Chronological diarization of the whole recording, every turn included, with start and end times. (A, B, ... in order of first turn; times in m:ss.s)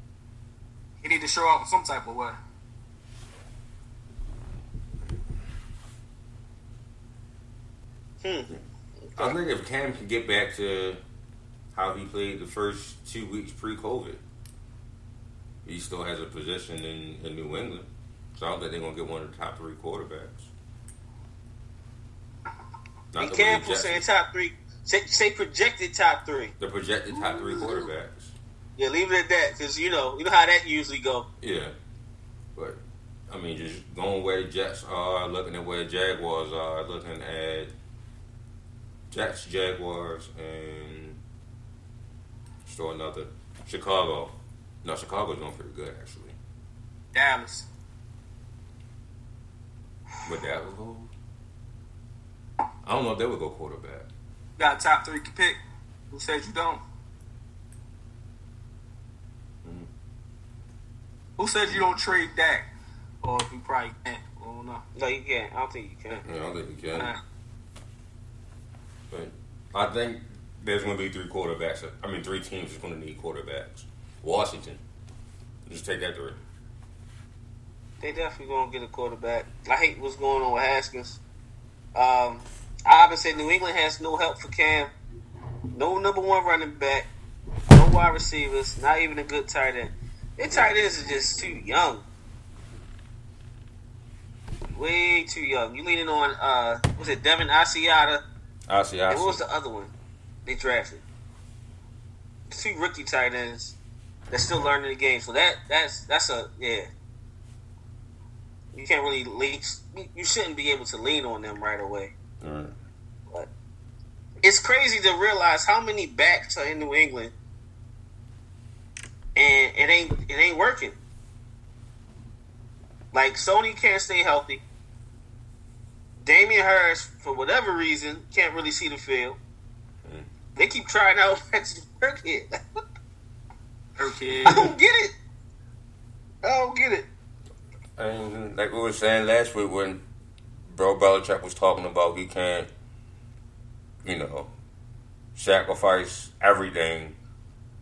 0:01.0-0:02.4 A
0:08.2-0:08.5 B
0:09.0-0:09.4 B
0:09.2-0:11.0 C
0:11.7-0:14.2 C
0:15.6-0:20.5 C
0:23.1-0:24.1 C
0:23.2-0:26.5 B
0:26.6-0:28.4 C
0:27.3-0:27.6 A
0:28.8-0:31.3 B
0:31.4-0:31.7 C
0:32.6-0:37.7 C
0:39.1-0:41.2 C
0:42.7-0:46.4 C
0:47.1-0:47.7 A
0:50.2-0:51.1 C
0:52.8-0:54.1 C
0:54.6-0:55.6 A
0:56.1-0:56.8 A
0:59.6-0:59.9 C
1:01.4-1:02.7 A
1:03.2-1:04.8 A
1:05.0-1:06.2 B
1:06.2-1:07.1 C
1:07.0-1:07.2 A
1:09.1-1:14.8 C
1:15.7-1:16.4 C
1:18.0-1:21.2 B
1:22.0-1:24.9 B
1:25.7-1:27.1 B
1:27.7-1:32.0 B
1:30.5-1:30.8 C
1:34.7-1:38.2 B
1:38.7-1:39.4 C
1:39.1-1:39.9 B
1:40.5-1:41.0 B
1:42.5-1:43.8 B
1:44.3-1:46.9 B
1:48.7-1:52.1 B
1:52.4-1:52.8 C
1:54.4-1:57.3 B
1:59.4-2:01.0 B
2:03.1-2:04.6 B
2:06.2-2:09.4 B
2:10.6-2:12.8 B
2:14.0-2:14.7 A
2:14.5-2:15.2 B
2:16.4-2:17.1 B
2:18.0-2:20.0 C
2:20.7-2:22.7 C
2:24.0-2:24.5 C
2:25.4-2:27.2 C